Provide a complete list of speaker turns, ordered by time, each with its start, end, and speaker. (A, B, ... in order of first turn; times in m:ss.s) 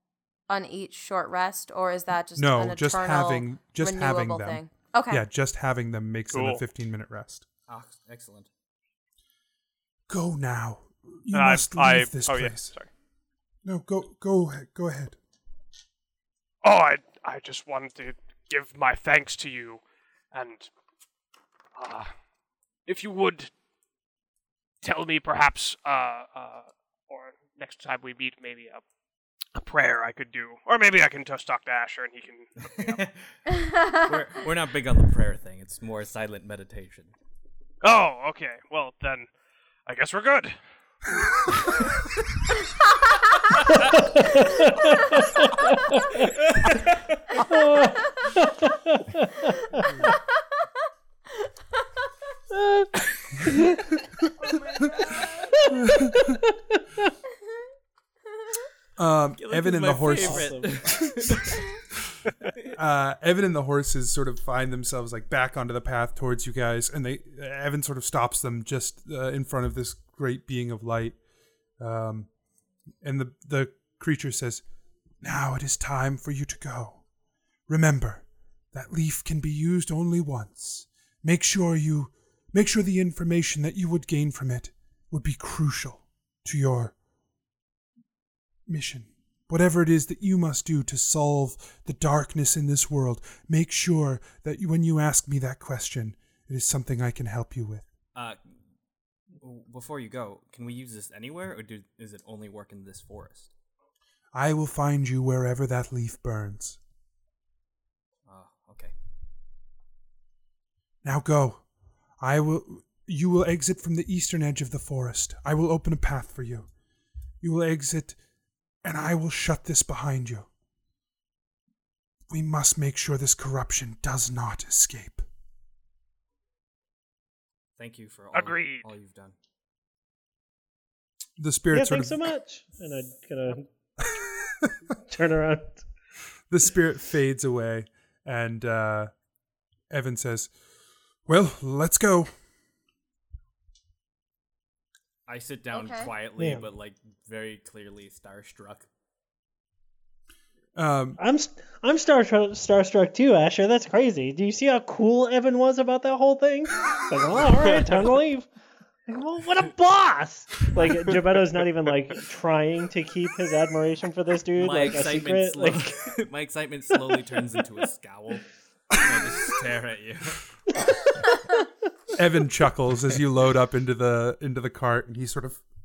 0:00.5-0:05.2 A
0:02.4-0:07.4 B
0:06.3-0:06.6 C
0:07.7-0:08.5 D
0:10.1-0:12.7 B
0:11.3-0:12.9 C
0:13.6-0:15.2 B
0:16.6-0:20.7 C
0:21.8-0:22.1 C
0:22.9-0:23.5 C
0:24.8-0:28.8 C
0:29.6-0:33.0 C
0:32.6-0:33.2 D
0:33.6-0:34.0 A
0:33.8-0:37.1 D
0:37.8-0:39.3 C
0:39.9-0:40.6 C
0:44.1-0:46.3 E
0:47.4-0:49.8 E
0:52.5-0:53.7 E
0:54.4-0:55.8 A
0:55.7-0:56.4 B
0:56.1-0:56.8 E
0:59.0-1:00.7 B
0:59.4-1:01.8 D
1:00.1-1:01.3 E
1:02.7-1:11.2 B
1:11.8-1:12.3 B
1:13.0-1:14.6 B
1:15.2-1:17.0 B
1:17.7-1:27.0 B
1:28.7-1:37.9 B
1:39.4-1:43.5 D
1:44.3-1:46.8 B
1:48.3-1:48.9 D
1:51.0-1:51.6 B
1:52.2-1:56.7 B
1:57.4-1:58.2 B
1:58.8-2:00.5 B
2:02.3-2:05.3 B
2:07.8-2:09.4 D
2:08.3-2:08.9 C
2:11.4-2:12.3 B
2:11.7-2:13.7 E
2:14.1-2:14.7 B
2:15.0-2:15.8 E
2:16.5-2:19.1 B
2:19.9-2:20.5 B
2:21.3-2:22.3 B
2:25.3-2:28.9 D
2:25.7-2:26.1 A
2:26.4-2:26.6 E
2:30.8-2:31.2 B
2:31.2-2:38.5 E
2:39.1-2:45.9 E
2:44.6-2:50.4 D
2:52.1-2:55.6 B